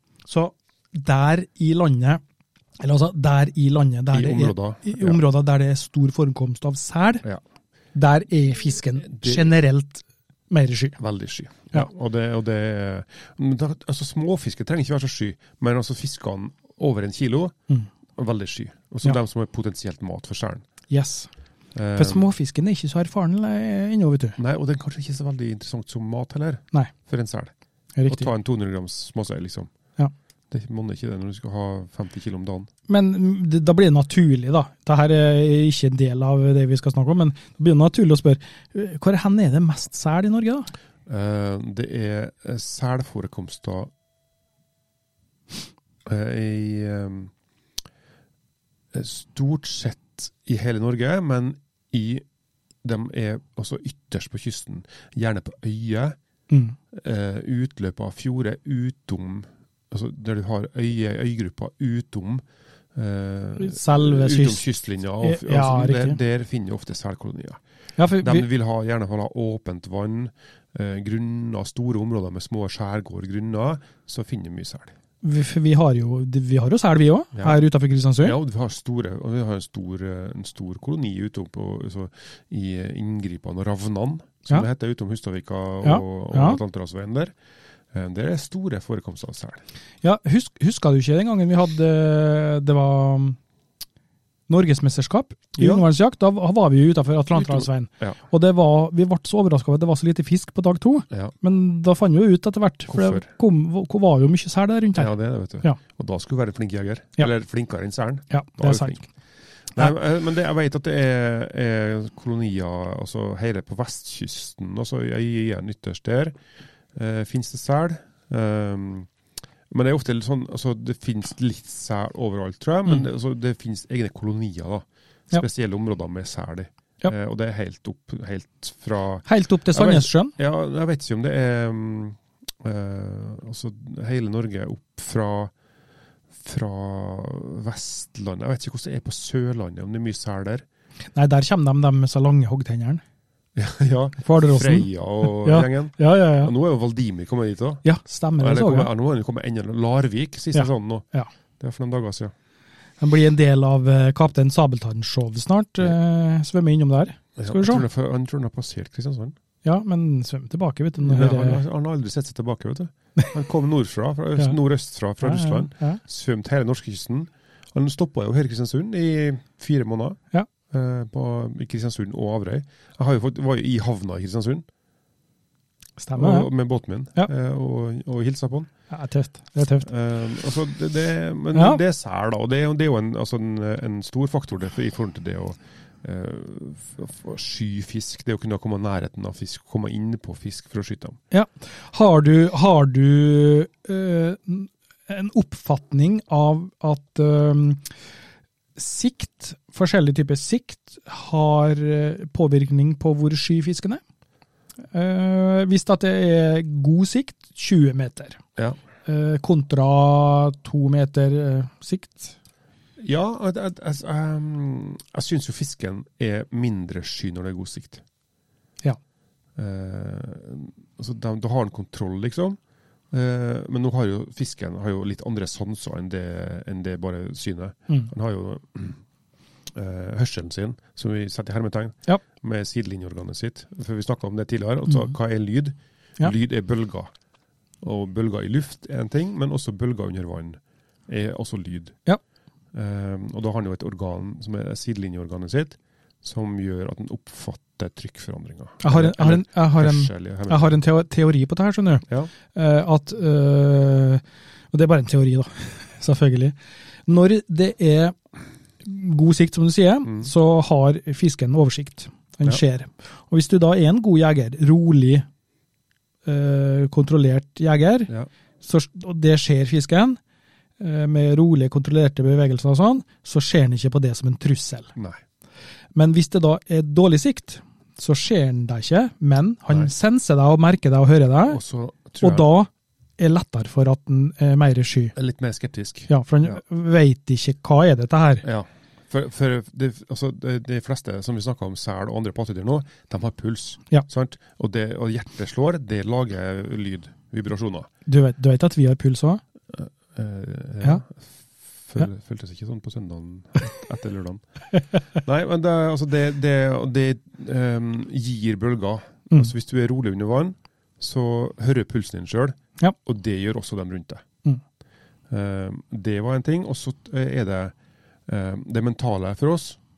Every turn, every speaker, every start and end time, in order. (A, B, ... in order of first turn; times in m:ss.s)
0:00.3-0:02.2 A
0:02.8-0:07.2 A
0:04.1-0:05.2 B
0:07.9-0:11.0 A
0:09.1-0:09.5 B
0:11.0-0:17.6 B
0:18.2-0:20.6 B
0:20.9-0:21.3 A
0:21.8-0:22.3 B
0:22.0-0:24.4 A
0:24.4-0:27.5 B
0:28.0-0:28.3 A
0:28.1-0:29.7 B
0:30.5-0:32.7 B
0:32.9-0:40.7 A
0:41.1-0:43.9 B
0:46.0-0:47.3 B
0:48.9-0:52.2 B
0:52.8-0:56.2 B
0:56.5-0:56.8 A
0:56.9-1:02.4 B
1:03.0-1:07.6 B
1:03.6-1:04.6 A
1:05.2-1:06.2 A
1:08.0-1:08.5 A
1:08.2-1:14.9 B
1:15.2-1:18.4 A
1:17.4-1:17.6 B
1:18.2-1:27.3 B
1:25.8-1:26.6 A
1:27.9-1:29.6 B
1:30.0-1:33.4 A
1:34.5-1:45.1 A
1:35.6-1:35.8 B
1:37.4-1:38.2 B
1:42.9-1:43.3 B
1:45.0-1:49.0 B
1:48.3-1:49.0 A
1:49.7-1:56.4 B
1:57.0-1:59.1 B
1:59.7-2:15.5 B
2:09.2-2:10.3 A
2:16.4-2:20.6 B
2:21.2-2:23.0 A
2:23.6-2:27.8 B
2:24.2-2:26.5 A
2:27.8-2:28.9 A
2:28.4-2:31.1 B
2:30.5-2:31.3 A
2:31.6-2:32.3 B
2:33.0-2:37.8 A
2:37.4-2:39.4 B
2:39.6-2:41.6 A
2:41.0-2:54.7 B
2:45.2-2:46.0 A
2:56.0-2:56.5 A
2:56.2-2:58.7 B
2:58.9-2:59.9 A
2:59.8-3:11.2 B
3:01.5-3:01.8 A
3:11.3-3:17.8 A
3:18.8-3:24.0 A
3:24.9-3:28.4 A
3:29.1-3:32.4 A
3:33.0-3:38.0 B
3:39.6-3:42.6 B
3:43.1-3:49.0 B
3:49.7-3:57.1 B
3:57.8-4:02.0 B
4:02.7-4:10.8 B
4:08.8-4:16.6 A
4:17.1-4:18.2 A
4:18.8-4:25.3 A
4:26.2-4:28.1 A
4:28.6-4:30.2 A
4:30.8-4:34.9 A
4:36.0-4:41.6 A
4:41.5-4:42.5 B
4:42.2-4:45.1 A
4:45.2-4:46.6 B
4:46.1-4:48.4 A
4:48.4-4:57.9 B
4:58.1-4:59.4 A
4:59.7-5:01.3 B
5:01.9-5:04.4 B
5:05.2-5:14.2 B
5:15.3-5:17.8 B
5:18.3-5:19.8 B